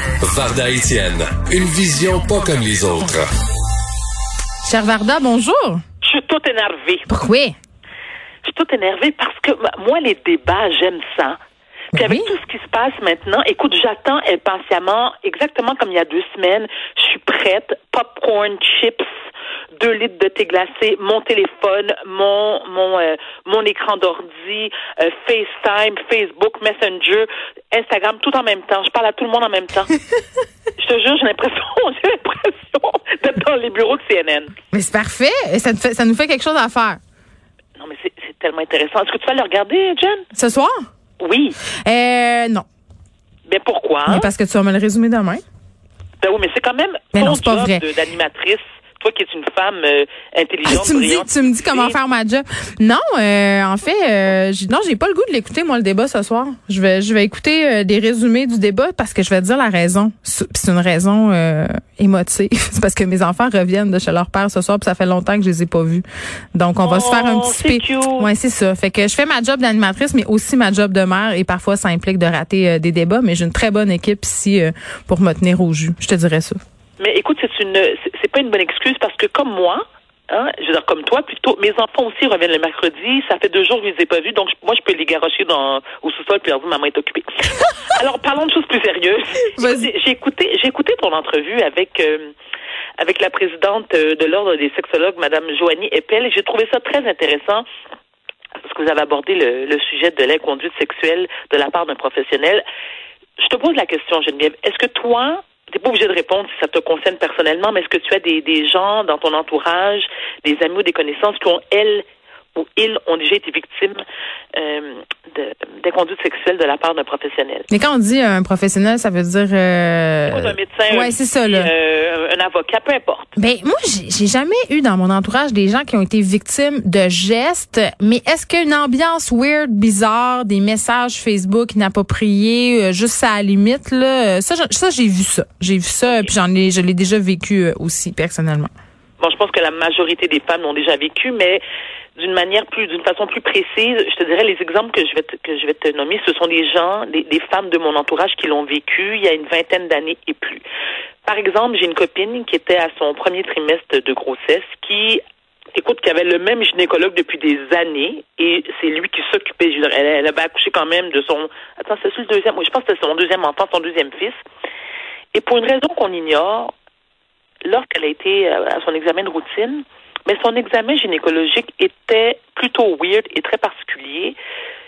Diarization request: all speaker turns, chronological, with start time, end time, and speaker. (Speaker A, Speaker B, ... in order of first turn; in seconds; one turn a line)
Speaker A: 0.2-3.3
Speaker B: 4.7-5.8
Speaker C: 6.0-7.1
Speaker B: 7.1-7.5
Speaker C: 8.4-11.4
Speaker B: 11.9-12.3
Speaker C: 11.9-19.1
Speaker C: 19.8-29.9
Speaker C: 30.8-34.5
Speaker B: 34.7-37.0
Speaker C: 37.8-40.3
Speaker B: 40.3-40.8
Speaker C: 41.2-41.6
Speaker B: 41.8-42.6
Speaker C: 43.5-44.3
Speaker B: 44.1-45.4
Speaker C: 46.2-52.0
Speaker B: 47.1-47.9
Speaker B: 50.6-76.6
Speaker C: 66.8-68.3
Speaker C: 77.0-92.3
Speaker B: 89.6-89.9
Speaker C: 93.0-97.7
Speaker C: 98.6-102.6
Speaker C: 103.4-114.0
Speaker C: 114.5-117.7
Speaker B: 117.7-121.7
Speaker C: 120.3-123.3
Speaker B: 123.4-138.7
Speaker C: 139.2-141.6
Speaker C: 142.2-150.6
Speaker C: 151.2-155.2
Speaker C: 155.8-164.4
Speaker C: 165.3-166.7
Speaker C: 167.6-174.4